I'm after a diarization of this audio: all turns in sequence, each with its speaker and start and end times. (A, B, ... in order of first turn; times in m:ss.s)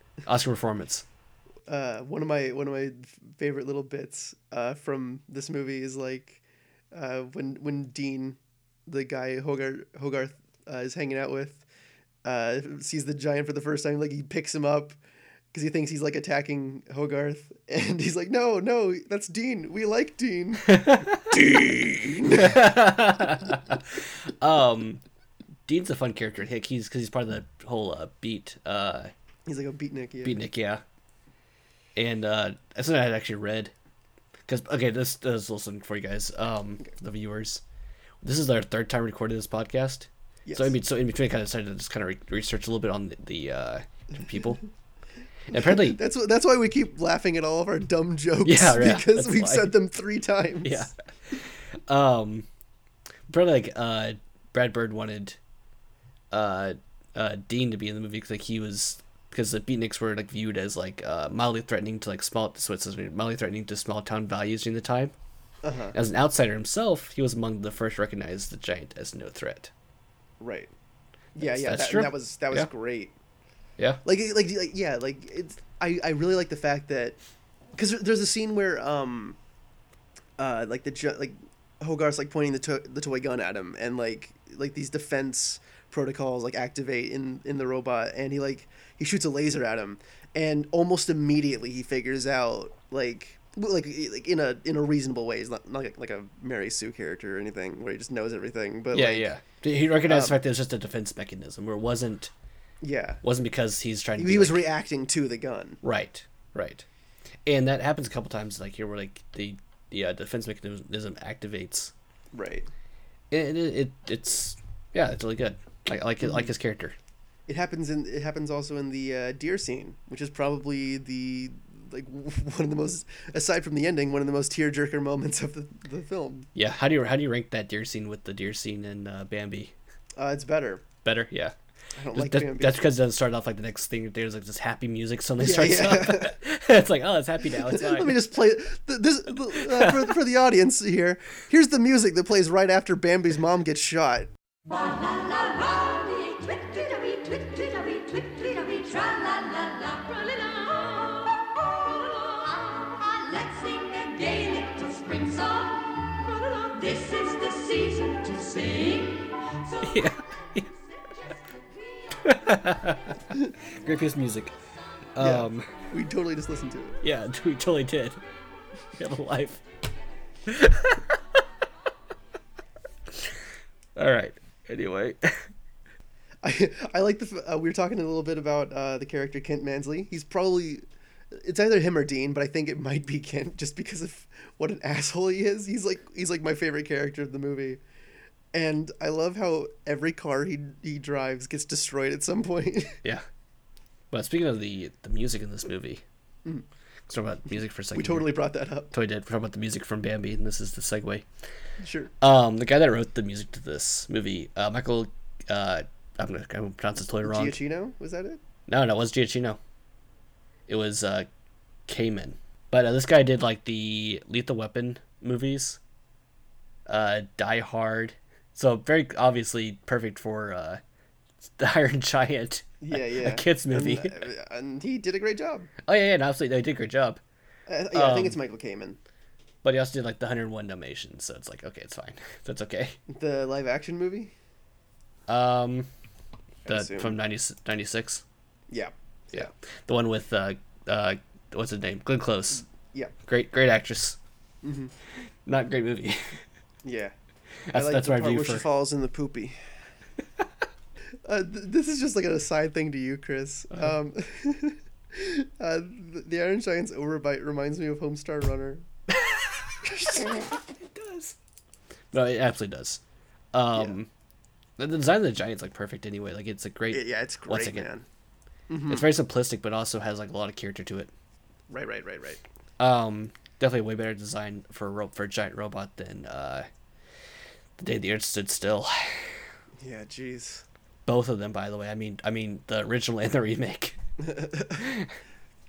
0:00.2-0:01.0 A
0:01.7-0:06.4 B
0:06.9-0:11.6 B
0:12.2-0:15.0 B
0:15.5-0:22.6 B
0:20.7-0:25.0 A
0:25.7-0:29.1 A
0:29.5-0:30.4 B
0:30.2-0:30.8 A
0:32.0-0:33.7 A
0:34.5-0:37.6 A
0:38.2-0:44.6 A
0:40.4-0:40.7 B
0:45.5-0:46.0 A
0:45.5-0:50.9 B
0:48.4-0:49.7 A
0:50.6-0:52.5 A
0:53.3-0:55.4 A
0:56.3-1:05.1 A
1:05.6-1:06.0 B
1:05.9-1:09.7 A
1:10.4-1:10.7 B
1:11.3-1:13.1 B
1:11.4-1:12.7 A
1:14.0-1:17.2 B
1:17.8-1:19.4 B
1:20.4-1:39.3 B
1:38.9-1:42.3 A
1:40.1-1:40.4 B
1:42.8-1:43.2 B
1:43.2-1:44.6 A
1:44.2-1:45.8 B
1:45.8-1:46.8 A
1:47.4-1:51.9 A
1:52.3-1:52.7 B
1:53.3-1:57.0 A
1:57.5-2:06.5 B
2:06.5-2:09.7 A
2:10.2-2:10.8 B
2:11.0-2:11.5 A
2:11.9-2:12.8 B
2:12.1-2:18.2 A
2:15.4-2:16.4 B
2:17.5-2:24.3 B
2:19.5-2:20.1 A
2:24.7-2:42.4 C
2:39.8-2:40.7 A
2:42.2-2:44.5 A
2:45.2-2:45.7 A
2:45.2-2:47.0 B
2:47.0-2:48.2 A
2:49.0-2:49.6 A
2:50.4-2:51.4 A
2:53.1-2:53.3 A
2:54.0-2:55.5 A
2:56.4-3:07.8 B
3:08.5-3:13.0 B
3:14.1-3:16.0 A
3:17.1-3:18.3 A
3:17.9-3:18.9 B
3:18.9-3:21.2 A
3:21.8-3:22.1 B
3:22.2-3:27.6 A
3:27.2-3:28.4 B
3:28.7-3:29.6 A
3:30.7-3:31.3 A
3:31.9-3:35.8 A
3:36.9-3:40.8 A
3:41.4-3:44.2 A
3:42.8-3:45.7 B
3:45.8-3:47.2 A
3:47.7-3:49.0 B
3:47.9-3:48.4 A
3:49.6-3:53.0 A
3:53.1-3:54.3 B
3:55.3-3:55.9 A
3:56.6-3:57.2 B
3:56.7-3:58.2 A
3:58.7-3:59.5 B
3:59.3-4:02.6 A
4:03.2-4:04.2 A
4:04.6-4:04.9 B
4:05.4-4:06.4 A
4:06.8-4:07.1 B
4:07.7-4:08.6 A
4:07.7-4:09.6 B
4:11.2-4:18.8 B
4:19.8-4:20.4 B
4:19.8-4:21.3 A
4:22.1-4:23.0 A
4:23.5-4:24.1 A
4:24.8-4:27.9 A
4:26.9-4:28.0 B
4:28.7-4:29.1 B
4:28.9-4:31.1 A
4:31.7-4:32.4 B
4:32.8-4:36.7 A
4:37.8-4:39.3 A
4:39.8-4:40.6 B
4:41.0-4:44.0 A
4:44.2-4:44.8 B
4:44.8-4:45.1 A